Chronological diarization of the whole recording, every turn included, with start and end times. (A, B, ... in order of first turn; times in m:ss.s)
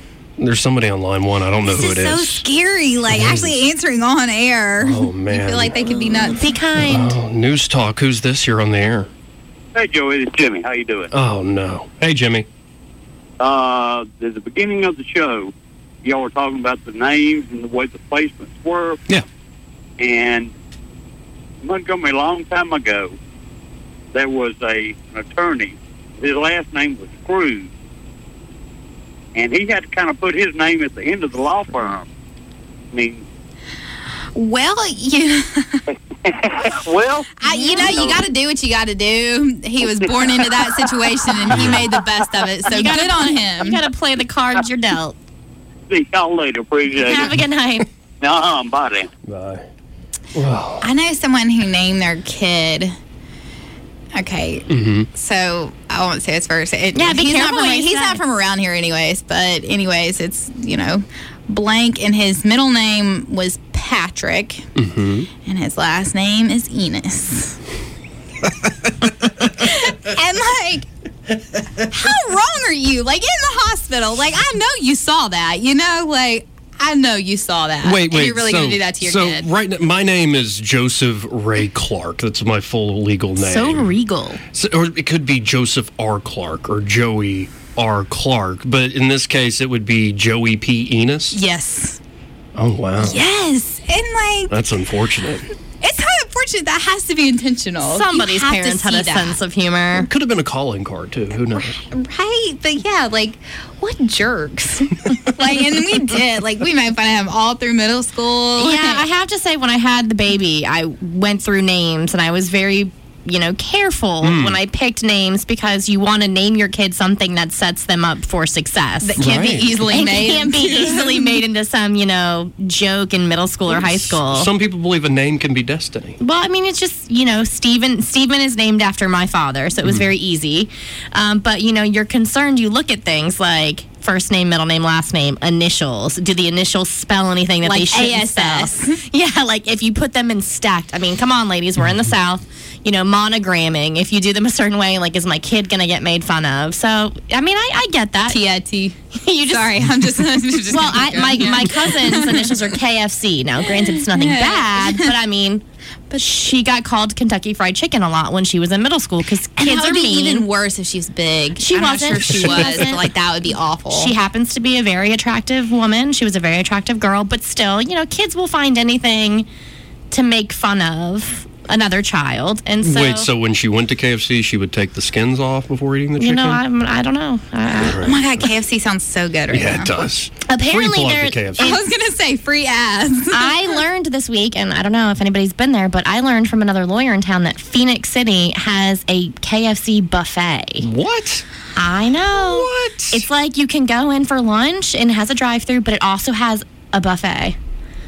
0:00.4-0:02.4 A
0:01.6-0:06.5 B
0:03.1-0:03.5 A
0:04.8-0:05.8 A
0:06.3-0:07.2 C
0:06.8-0:09.1 A
0:09.8-0:11.1 D
0:11.1-0:12.5 A
0:13.4-0:19.0 D
0:20.0-0:20.5 D
0:21.6-0:23.2 D
0:24.1-0:27.7 D
0:29.3-0:32.1 D
0:32.9-0:33.2 D
0:34.4-0:35.8 B
0:36.2-0:38.2 D
0:37.4-0:43.8 B
0:37.7-0:38.1 C
0:41.5-0:41.8 A
0:42.7-0:45.2 C
0:45.9-0:47.4 D
0:47.0-0:47.9 C
0:48.2-0:49.1 D
0:49.2-0:49.7 A
0:50.3-0:50.9 A
0:50.8-0:53.0 B
0:54.1-1:04.7 B
0:54.7-0:55.1 A
0:57.0-0:58.2 C
1:04.8-1:05.3 A
1:05.4-1:07.6 B
1:09.4-1:10.9 B
1:11.8-1:19.5 B
1:17.8-1:23.9 A
1:23.4-1:24.4 C
1:24.5-1:31.4 A
1:31.3-1:32.0 B
1:32.6-1:33.2 A
1:33.0-1:34.6 B
1:34.5-1:35.5 A
1:35.8-1:39.4 B
1:37.8-1:40.1 C
1:40.0-1:41.8 A
1:41.8-1:49.0 B
1:48.6-2:04.5 C
1:54.2-1:54.6 A
1:59.0-2:01.4 B
1:59.2-1:59.7 A
2:03.7-2:06.2 A
2:06.2-2:28.4 C
2:17.6-2:19.0 B
2:28.3-2:32.6 B
2:29.1-2:29.7 C
2:30.7-2:35.6 C
2:33.8-2:35.1 B
2:36.2-2:40.5 C
2:39.6-2:44.1 B
2:41.6-2:43.0 C
2:42.1-2:42.9 A
2:43.9-2:49.5 C
2:50.1-2:53.3 C
2:52.8-2:56.6 A
2:56.2-2:58.1 C
2:57.8-2:58.2 A
2:58.0-2:59.9 B
2:59.5-3:01.8 A
3:00.5-3:01.9 C
3:01.6-3:03.8 B
3:03.3-3:10.9 C
3:10.8-3:11.4 A
3:11.8-3:17.6 C
3:12.3-3:13.2 A